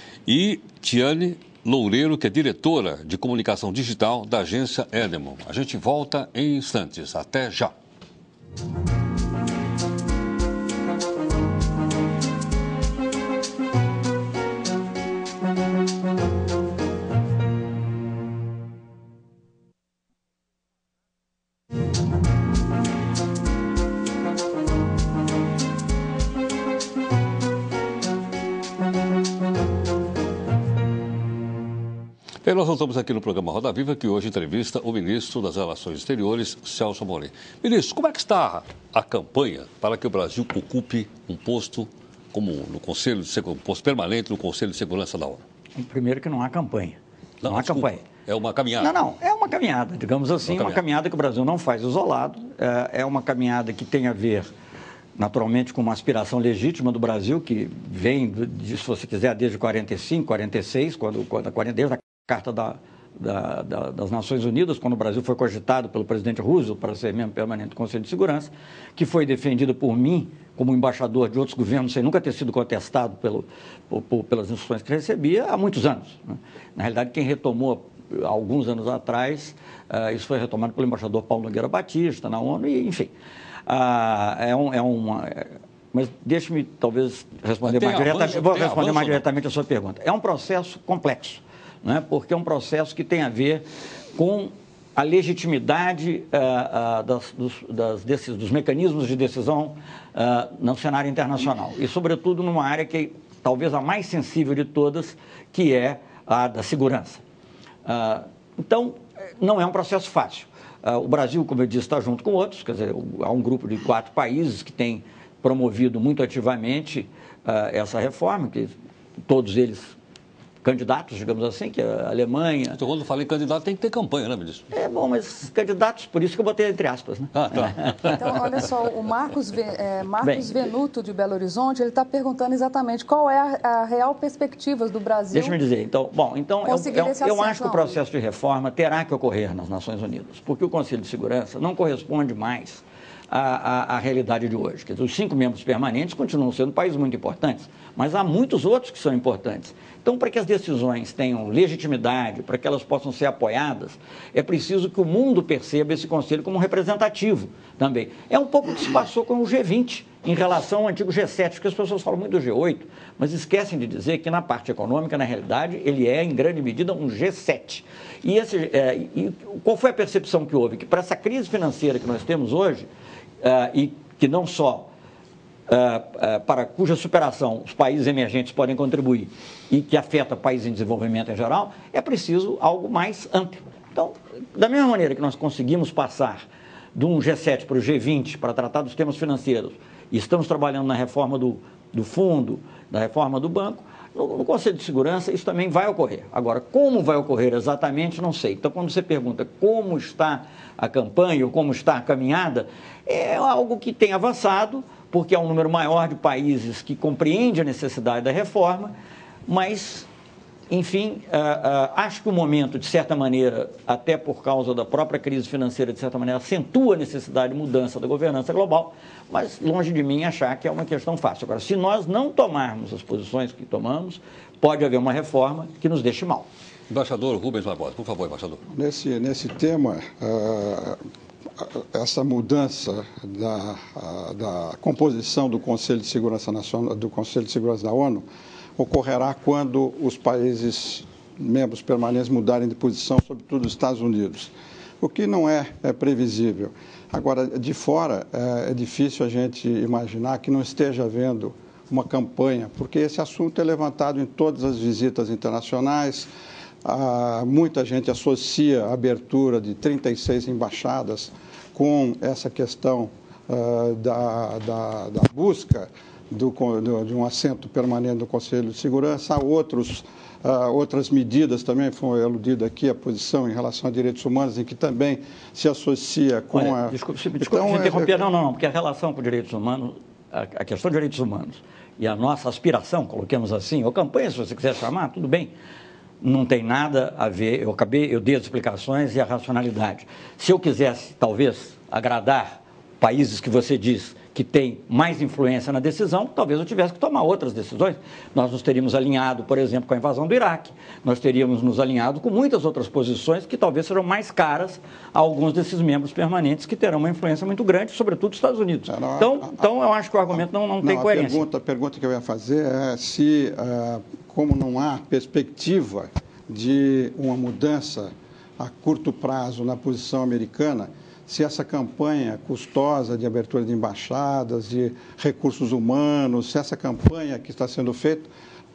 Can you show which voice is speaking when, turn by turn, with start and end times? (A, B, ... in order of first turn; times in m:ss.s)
0:00.3-0:07.7 A
0:32.4-0:45.4 A
0:45.8-0:48.0 B
0:47.4-0:48.9 A
0:48.8-0:54.5 B
0:50.5-0:50.8 A
0:55.2-1:23.1 B
1:23.7-1:33.6 B
1:27.7-1:29.2 A
1:34.2-1:47.2 B
1:47.9-1:58.7 B
1:59.3-1:59.9 B
2:00.6-2:02.8 B
2:02.8-2:04.7 A
2:04.7-2:08.1 B
2:07.4-2:08.7 A
2:08.1-2:15.6 C
2:10.2-2:10.5 B
2:15.3-2:52.9 B
2:16.6-2:18.0 C
2:53.4-2:54.9 B
2:55.7-3:28.9 B
3:29.5-3:30.1 B
3:30.7-3:46.5 B
3:46.9-3:48.6 A
3:48.7-3:51.0 D
3:51.8-3:58.3 D
3:58.8-4:16.3 D
4:16.8-4:38.1 D
4:36.5-4:45.5 B
4:46.2-5:11.4 B
5:08.9-5:09.7 D
5:10.4-5:28.3 D